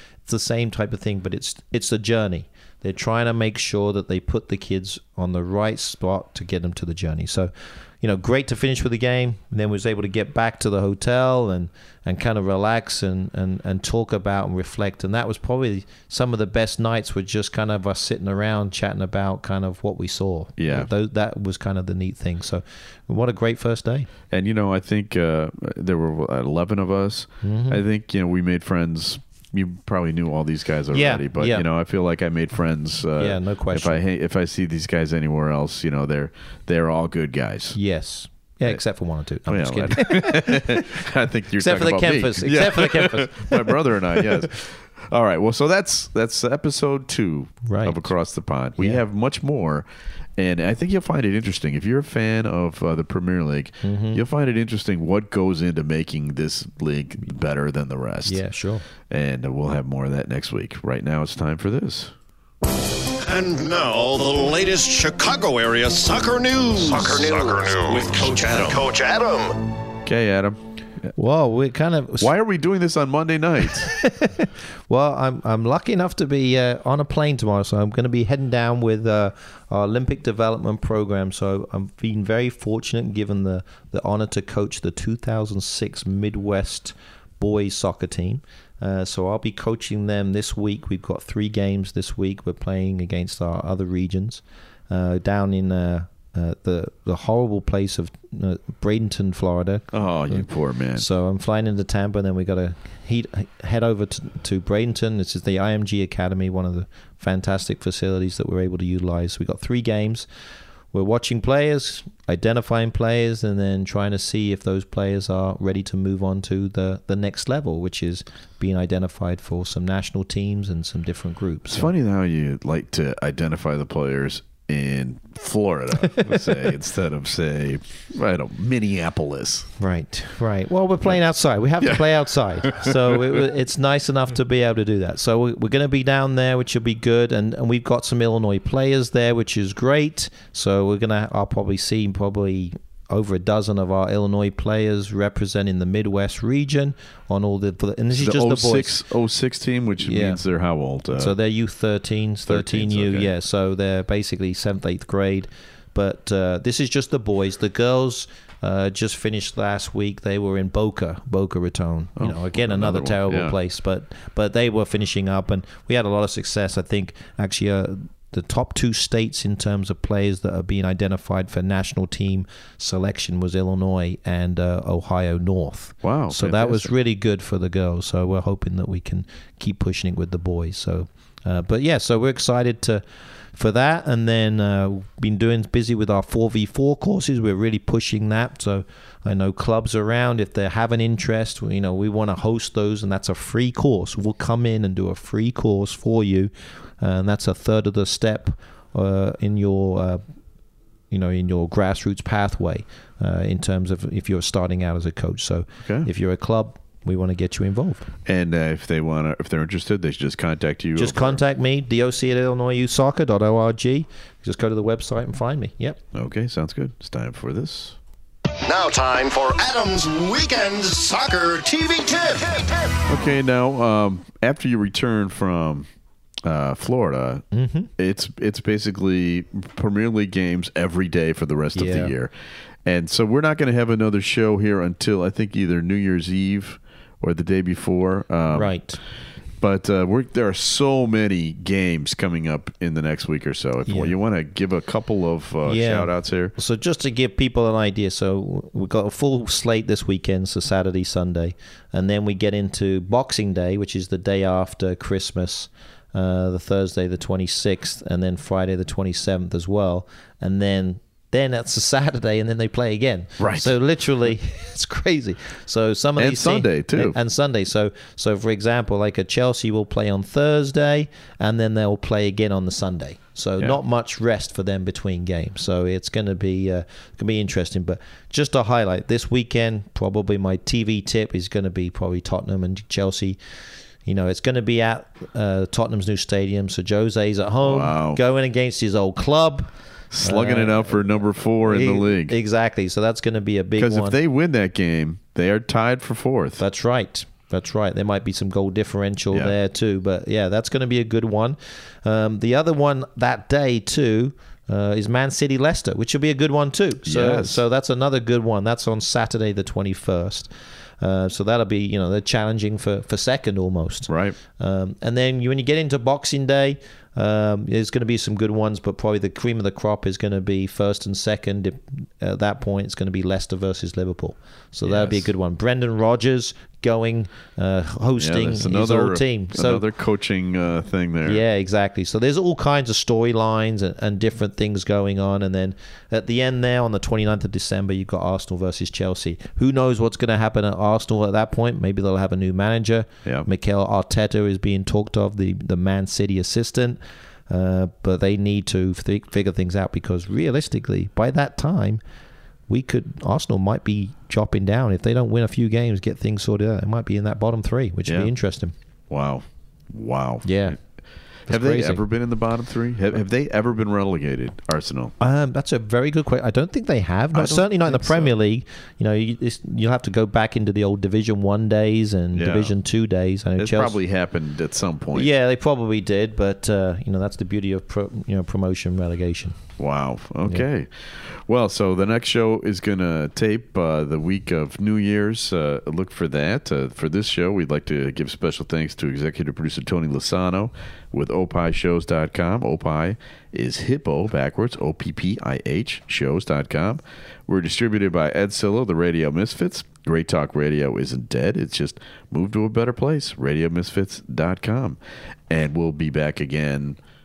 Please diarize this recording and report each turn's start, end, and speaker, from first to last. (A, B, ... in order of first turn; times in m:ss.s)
0:00.2-0:24.1 A
0:20.6-0:20.9 B
0:24.3-0:37.8 B
0:27.4-0:27.8 A
0:30.9-0:31.6 A
0:33.2-0:34.0 A
0:37.7-0:40.9 A
0:39.5-0:58.4 B
0:41.6-0:44.5 A
0:47.6-0:48.1 A
0:48.8-0:49.0 A
0:53.8-0:54.2 A
0:58.2-0:58.8 A
0:59.1-1:02.1 B
1:03.1-1:09.7 C
1:10.0-1:10.6 B
1:11.2-1:12.3 A
1:12.2-1:13.9 B
1:13.8-1:50.3 A
1:39.9-1:41.1 B
1:50.9-2:01.9 A
2:01.7-2:09.7 B
2:06.0-2:06.5 A
2:09.8-2:29.0 A
2:28.1-2:31.3 B
2:30.0-2:30.4 A
2:31.1-3:20.2 A
2:32.4-2:33.3 B
2:42.2-2:43.5 B
2:56.0-2:56.9 B
3:21.1-3:28.1 A
3:25.8-3:26.1 B
3:28.2-3:31.4 B
3:31.0-3:36.0 A
3:36.1-3:38.0 B
3:38.6-3:43.0 C
3:43.1-3:45.9 B
3:46.4-3:47.4 B
3:47.5-3:47.9 A
3:48.0-3:52.3 B
3:51.7-3:52.1 A
3:52.8-3:58.7 B
3:58.5-3:59.0 A
3:59.6-4:06.5 B
4:03.8-4:04.1 A
4:05.6-4:43.4 A
4:23.4-4:23.7 B
4:26.2-4:27.2 B
4:44.0-4:49.7 A
4:47.6-4:48.2 B
4:50.1-4:52.3 B
4:50.2-4:54.2 A
4:53.8-4:56.6 B
4:56.6-5:29.8 A
5:07.0-5:07.6 B
5:14.1-5:14.4 B
5:24.8-5:25.3 B
5:28.2-5:31.4 B
5:31.2-5:52.0 A
5:52.7-5:58.7 A
5:58.0-5:58.3 B
5:59.1-6:00.8 B
6:00.4-6:00.8 A
6:01.5-6:02.0 A
6:01.5-6:05.1 B
6:05.2-6:14.0 A
6:07.3-6:08.3 B
6:12.3-6:12.7 B
6:13.6-6:15.3 B
6:15.1-6:19.6 A
6:19.8-6:45.0 B
6:45.5-6:47.0 B